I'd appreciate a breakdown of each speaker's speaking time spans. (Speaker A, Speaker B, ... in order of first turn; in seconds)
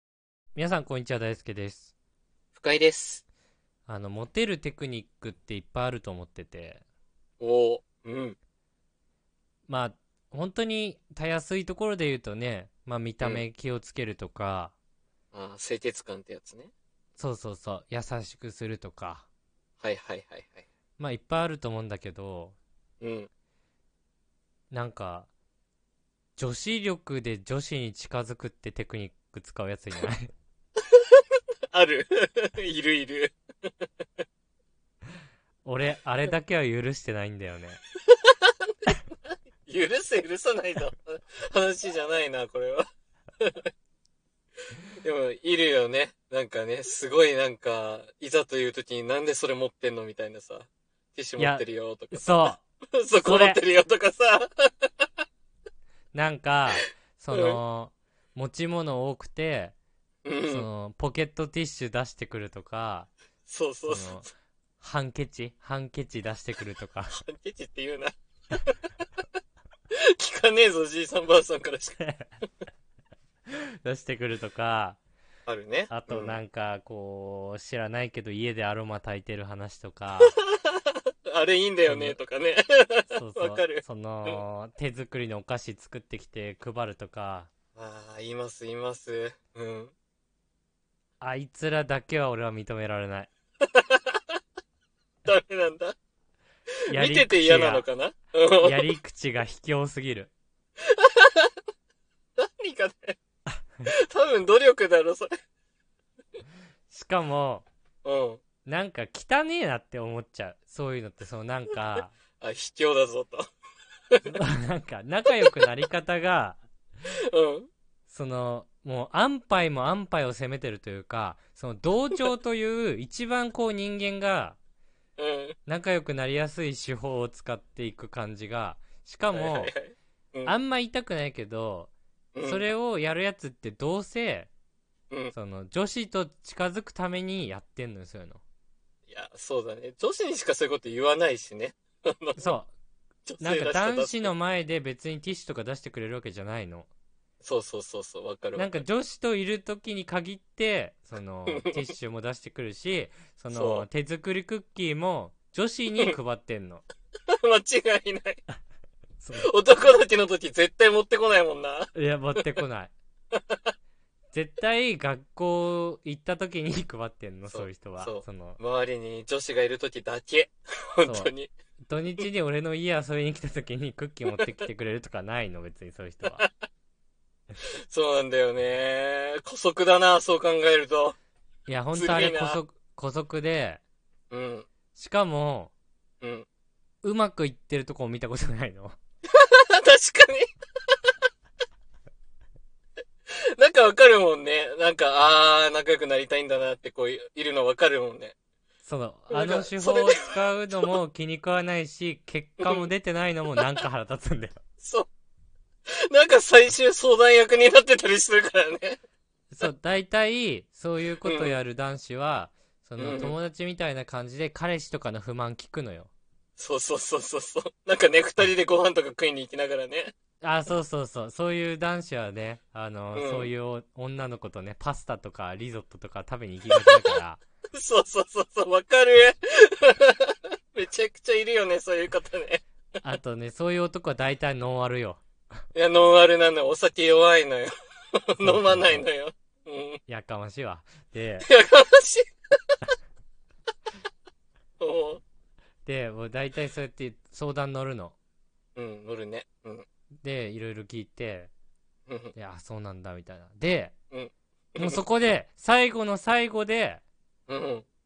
Speaker A: 0.6-1.9, 3.9-6.8, 9.7-14.8, 17.2-19.3, 21.0-22.6, 24.7-25.3, 26.4-30.3, 35.6-37.8, 51.4-52.6, 53.1-53.6, 56.1-59.8, 60.5-63.1, 63.9-64.3, 64.8-67.2, 72.0-72.2, 73.5-75.0, 75.9-80.3, 81.8-82.2, 83.1-87.5, 91.2-93.3, 96.9-97.8, 98.6-100.3, 106.9-107.7, 108.7-112.2, 114.3-116.6, 118.1-124.6, 125.7-129.7, 130.4-134.5, 135.3-138.4, 142.4-142.7, 143.4-146.9, 148.5-156.8, 159.2-159.5, 161.9-162.9, 164.3-168.6, 171.0-176.4, 181.7-183.8, 185.0-185.7, 187.0-188.9, 198.8-204.6, 209.5-216.1, 220.4-227.4, 233.0-235.2, 238.4-239.0, 240.1-241.5, 245.9-248.2, 250.2-251.5, 252.4-253.9, 254.8-257.0
Speaker B: 2.5-3.2, 7.4-8.4, 15.3-16.7, 19.8-20.7, 23.0-23.3, 30.9-31.2, 31.7-33.9, 38.1-38.5, 39.7-42.9, 43.4-43.7, 45.0-55.1, 57.3-57.6, 60.2-60.7, 63.5-64.3, 67.1-68.1, 70.2-72.0, 75.5-76.4, 80.5-84.4, 87.8-89.9, 93.7-94.4, 95.2-96.0, 96.9-98.9, 100.9-101.5, 102.4-103.2, 103.9-105.3, 108.0-108.4, 112.4-113.5, 117.3-117.7, 125.2-125.6, 129.3-130.6, 132.3-132.6, 139.1-142.6, 143.3-144.3, 147.4-148.8, 151.5-151.8, 153.5-153.9, 157.3-158.4, 159.4-162.6, 163.3-163.7, 167.5-171.5, 177.8-181.2, 181.9-182.6, 184.3-184.7, 186.2-186.5, 189.3-190.5, 193.3-198.3, 199.3-200.3, 202.6-202.9, 204.8-205.1, 206.1-209.0, 211.2-211.5, 213.0-213.3, 216.6-220.1, 223.2-223.5, 226.7-227.1, 227.8-232.6, 235.7-240.0, 241.4-242.2, 244.8-245.2, 248.8-249.9, 252.1-252.3, 254.1-255.0, 257.5-257.9